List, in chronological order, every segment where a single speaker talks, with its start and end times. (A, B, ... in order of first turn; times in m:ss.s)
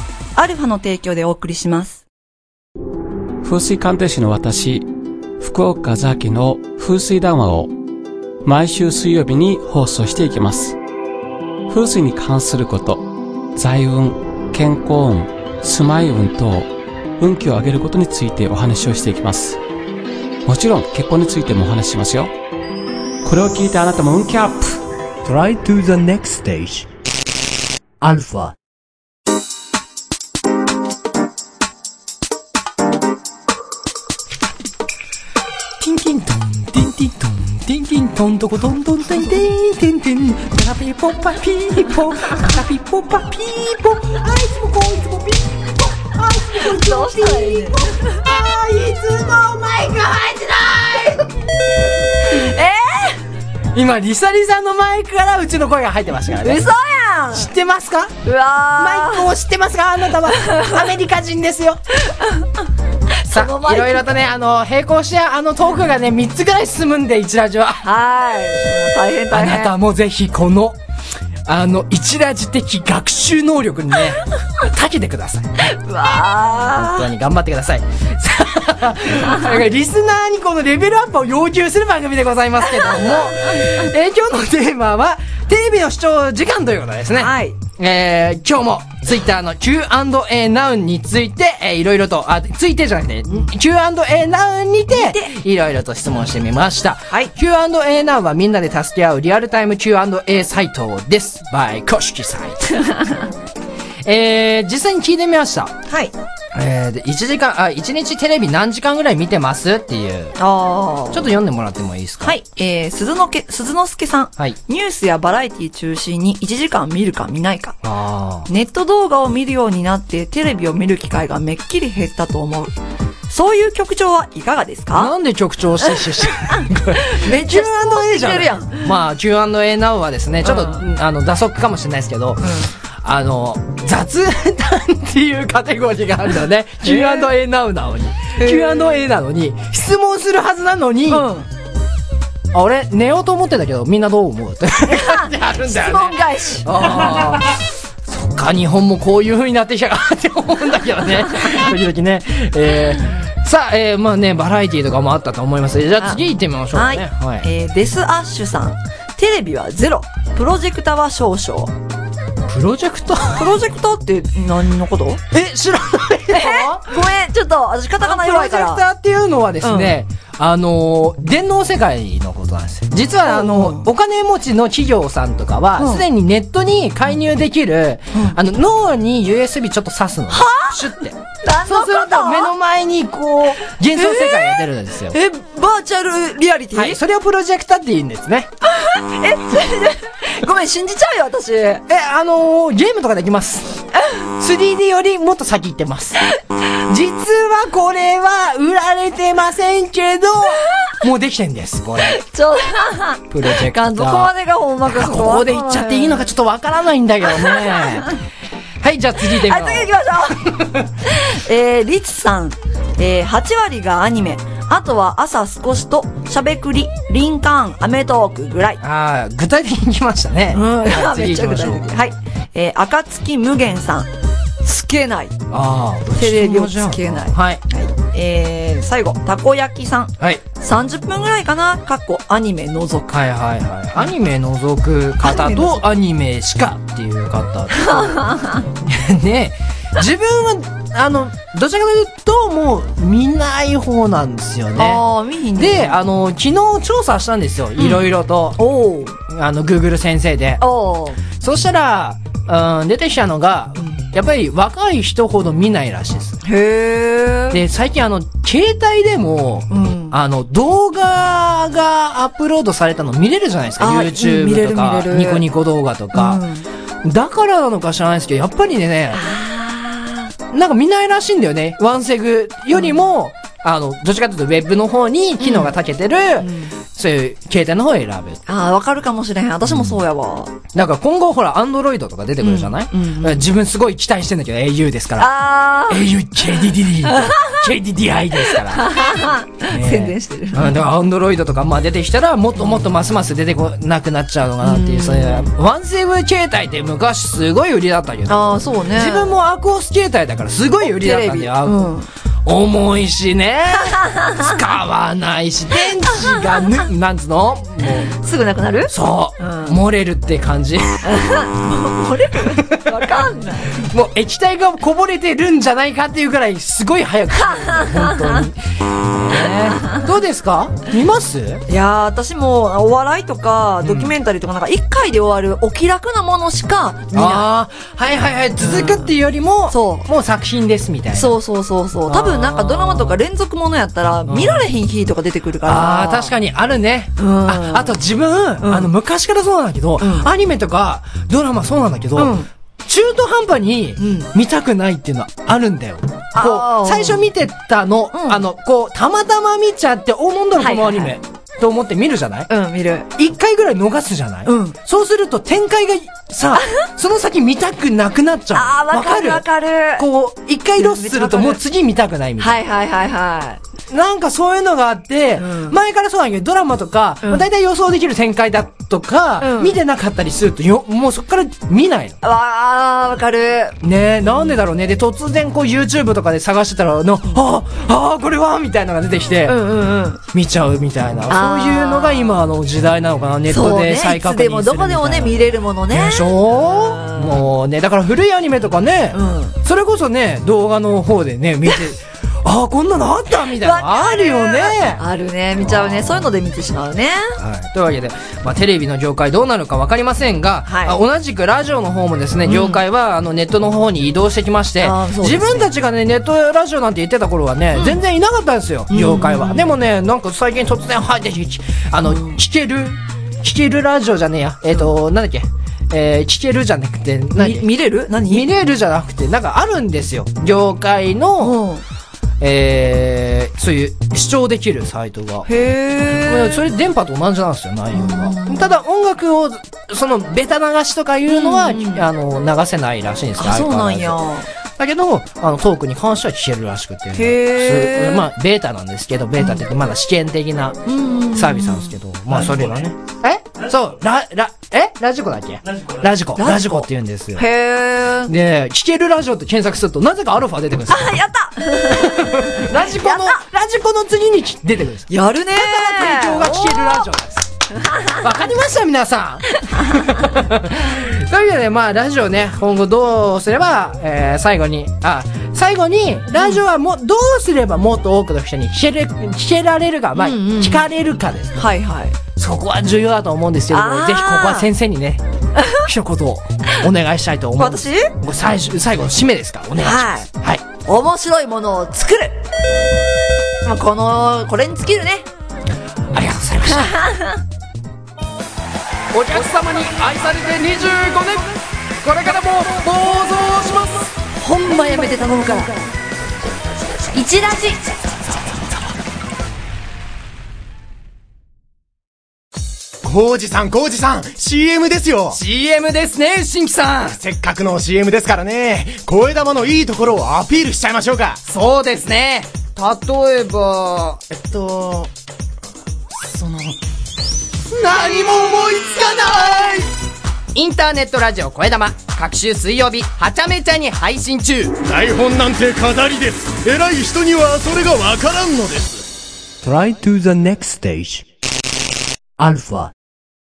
0:00.4-0:02.0 A
0:03.4-0:04.9 B
0:05.4-0:07.7 B
0:08.4-0:10.8 B
0:11.7-0:13.0 B
0:13.6-0:19.6 B
0:20.5-0:22.3 B
0:23.2-0:24.8 B
0:25.2-0:26.9 C
0:28.0-0:28.6 C
0:35.8-0:51.3 D
0:46.6-0:48.2 A
0:52.3-0:53.2 A
0:53.7-0:56.7 D
0:56.4-0:57.5 A
0:57.3-0:58.1 D
0:58.2-0:59.3 A
0:58.8-1:01.8 D
1:03.2-1:04.1 A
1:03.3-1:07.8 D
1:07.8-1:09.8 A
1:09.3-1:10.8 D
1:11.5-1:15.7 D
1:15.6-1:17.1 A
1:16.8-1:42.6 D
1:22.7-1:23.6 A
1:27.2-1:27.6 A
1:34.9-1:35.3 A
1:44.0-1:45.8 D
1:45.9-1:46.1 A
1:46.5-1:50.4 D
1:50.4-1:51.3 A
1:51.1-1:52.4 D
1:52.2-1:57.8 A
1:57.8-1:58.5 D
1:58.5-2:02.7 A
2:03.3-2:05.1 A
2:04.9-2:21.3 D
2:07.0-2:08.9 A
2:10.4-2:10.8 A
2:12.4-2:12.7 A
2:16.8-2:17.3 A
2:18.4-2:19.0 A
2:21.1-2:21.5 A
2:22.5-2:37.5 D
2:24.9-2:27.4 A
2:36.7-2:41.7 A
2:42.5-2:43.5 D
2:43.3-2:45.2 A
2:45.3-2:47.0 D
2:46.3-2:48.8 A
2:48.0-3:05.2 D
2:49.6-2:50.0 A
2:53.3-2:53.9 A
2:55.8-2:56.0 A
3:00.3-3:00.8 A
3:01.4-3:02.5 A
3:04.0-3:04.6 A
3:05.1-3:07.0 A
3:06.7-3:08.5 D
3:08.7-3:11.8 A
3:11.9-3:13.8 D
3:14.4-3:16.2 D
3:16.9-3:22.2 D
3:22.1-3:26.3 A
3:23.3-3:24.3 D
3:24.8-3:28.1 D
3:27.4-3:27.9 A
3:28.8-3:29.9 D
3:29.4-3:30.5 A
3:30.5-3:30.9 D
3:31.0-3:38.8 A
3:38.8-3:41.9 D
3:40.5-3:44.1 A
3:44.6-3:45.4 A
3:45.5-3:47.6 D
3:46.1-3:53.2 A
3:53.1-4:05.0 D
3:55.2-3:55.8 A
3:57.9-3:58.6 A
4:04.8-4:06.0 A
4:05.6-4:08.6 D
4:07.8-4:08.0 A
4:08.6-4:09.2 A
4:09.2-4:10.6 D
4:10.6-4:11.2 A
4:11.3-4:16.4 D
4:16.4-4:17.6 A
4:17.5-4:26.4 D
4:19.7-4:20.2 A
4:23.8-4:25.5 A
4:26.1-4:26.7 A
4:27.0-4:29.2 D
4:29.1-4:30.3 A
4:30.5-4:38.4 D
4:32.7-4:33.0 A
4:35.4-4:35.7 A
4:36.4-4:36.8 A
4:38.5-4:40.6 A
4:39.7-4:40.0 D
4:40.7-4:45.3 D
4:42.4-4:43.5 A
4:45.2-4:46.1 A
4:45.9-4:49.1 D
4:46.6-4:47.6 A
4:48.7-4:50.8 A
4:49.7-5:08.1 D
4:54.6-4:55.5 A
4:58.3-4:59.4 A
5:00.8-5:02.1 A
5:04.0-5:04.5 A
5:06.3-5:06.6 A
5:08.1-5:09.8 A
5:08.9-5:11.0 D
5:11.0-5:13.8 A
5:12.4-5:13.0 D
5:13.7-5:21.6 D
5:17.4-5:18.4 A
5:21.7-5:27.5 A
5:23.8-5:24.2 D
5:27.1-5:31.4 D
5:28.6-5:29.1 A
5:29.7-5:30.1 A
5:31.1-5:36.4 A
5:32.1-5:33.2 D
5:34.3-5:34.7 D
5:35.6-5:52.5 D
5:37.2-5:38.0 A
5:38.6-5:38.9 A
5:40.0-5:40.3 A
5:42.2-5:42.5 A
5:44.0-5:44.3 A
5:46.3-5:47.2 A
5:48.1-5:48.4 A
5:50.6-5:51.2 A
5:52.5-5:53.1 A
5:53.2-5:59.5 D
5:54.5-5:54.8 A
5:58.5-6:00.1 A
6:00.0-6:02.6 D
6:00.8-6:01.6 A
6:02.4-6:03.6 A
6:03.9-6:12.2 D
6:05.4-6:05.8 A
6:09.4-6:09.8 A
6:12.2-6:14.5 A
6:13.8-6:19.6 D
6:19.5-6:20.2 A
6:20.2-6:35.0 D
6:21.3-6:22.4 A
6:23.5-6:27.4 A
6:29.1-6:29.6 A
6:33.5-6:37.4 A
6:35.6-6:36.3 D
6:37.4-6:57.7 D
6:40.7-6:41.0 A
6:42.5-6:42.8 A
6:44.8-6:45.7 A
6:47.8-6:48.0 A
6:48.9-6:49.7 A
6:52.0-6:52.4 A
6:57.4-6:58.5 A
6:58.2-7:01.6 D
7:01.4-7:01.8 A
7:02.4-7:05.5 D
7:05.5-7:06.6 A
7:06.2-7:14.2 D
7:07.9-7:08.8 A
7:11.3-7:12.1 A
7:13.4-7:14.5 A
7:14.8-7:27.4 D
7:17.1-7:18.3 A
7:19.4-7:19.6 A
7:20.9-7:22.0 A
7:26.4-7:28.3 A
7:28.3-7:31.1 D
7:30.9-7:33.4 A
7:31.9-7:37.5 D
7:35.1-7:37.1 A
7:37.8-7:38.2 A
7:38.1-7:51.7 D
7:50.2-7:50.9 A
7:51.6-7:52.2 A
7:52.4-8:00.6 D
7:53.7-7:54.7 A
7:55.6-7:55.8 A
7:57.6-7:58.1 A
7:59.8-8:00.3 A
8:00.8-8:02.4 A
8:03.6-8:05.3 A
8:06.1-8:07.0 D
8:06.8-8:07.4 A
8:09.1-8:14.1 D
8:14.4-8:15.7 A
8:17.1-8:17.8 A
8:23.0-8:25.4 E
8:25.3-8:27.2 D
8:27.1-8:31.4 E
8:31.4-8:34.9 D
8:34.8-8:35.1 E
8:36.2-8:36.8 D
8:37.7-8:39.7 D
8:38.1-8:39.7 E
8:40.5-8:44.7 D
8:44.8-8:49.0 E
8:49.6-8:51.3 C
8:52.4-8:52.9 C